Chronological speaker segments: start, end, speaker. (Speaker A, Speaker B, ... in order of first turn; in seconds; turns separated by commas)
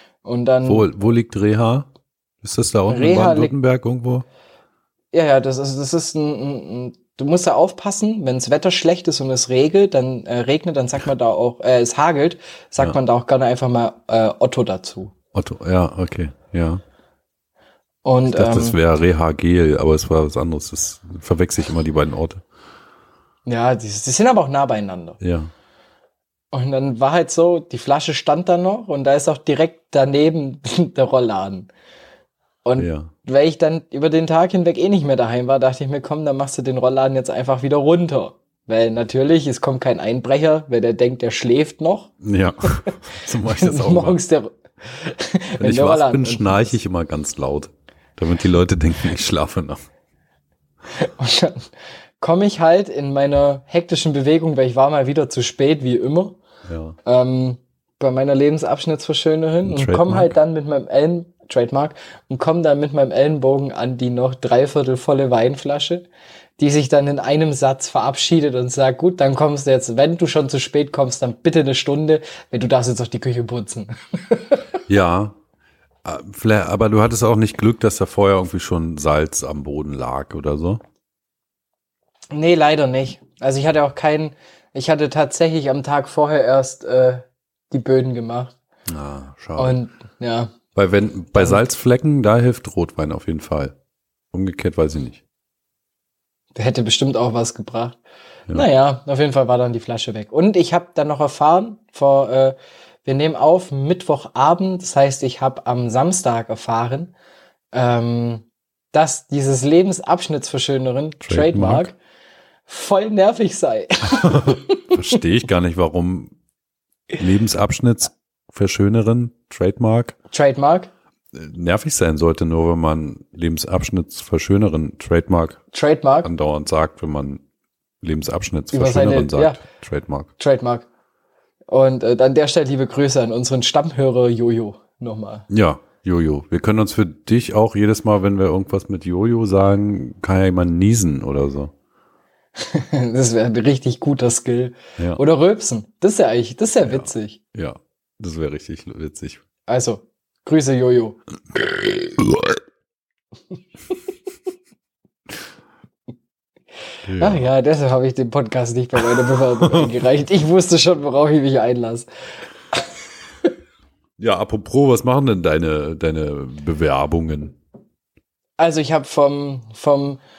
Speaker A: 0.2-0.9, Speaker B: 0.6-1.9, Speaker B: 2.4-4.2, Speaker A: 2.9-3.5, Speaker A: 5.1-15.1, Speaker B: 15.3-16.8, Speaker A: 18.0-18.8, Speaker B: 18.3-22.4, Speaker A: 23.4-25.2, Speaker B: 25.2-25.5, Speaker A: 26.5-31.7, Speaker A: 32.6-42.1, Speaker B: 32.8-33.1, Speaker B: 42.2-44.2, Speaker A: 42.6-46.7, Speaker B: 45.6-49.8, Speaker A: 50.9-51.7, Speaker A: 52.2-56.4, Speaker B: 56.7-57.0, Speaker A: 57.0-66.0, Speaker B: 59.6-60.3, Speaker A: 66.6-74.6, Speaker B: 74.9-75.4, Speaker B: 76.0-80.8, Speaker A: 82.3-88.5, Speaker B: 88.9-89.8, Speaker A: 89.6-90.5, Speaker B: 90.7-93.7, Speaker A: 91.4-91.6, Speaker B: 94.3-95.2, Speaker A: 96.5-98.0, Speaker A: 98.5-107.1, Speaker A: 107.7-111.9, Speaker B: 111.2-111.9, Speaker A: 112.7-114.9, Speaker B: 114.1-116.3, Speaker B: 117.2-120.1, Speaker A: 120.3-120.9, Speaker B: 121.3-125.6, Speaker A: 125.7-126.3, Speaker B: 126.2-127.4, Speaker B: 128.0-130.3, Speaker A: 128.7-129.6, Speaker A: 130.4-130.9, Speaker A: 131.7-135.5, Speaker B: 135.5-141.7, Speaker A: 142.6-147.4, Speaker B: 146.8-149.4, Speaker A: 149.7-151.2, Speaker B: 152.1-152.6, Speaker B: 157.0-157.5, Speaker A: 157.2-162.1, Speaker B: 164.2-167.6, Speaker A: 168.6-170.2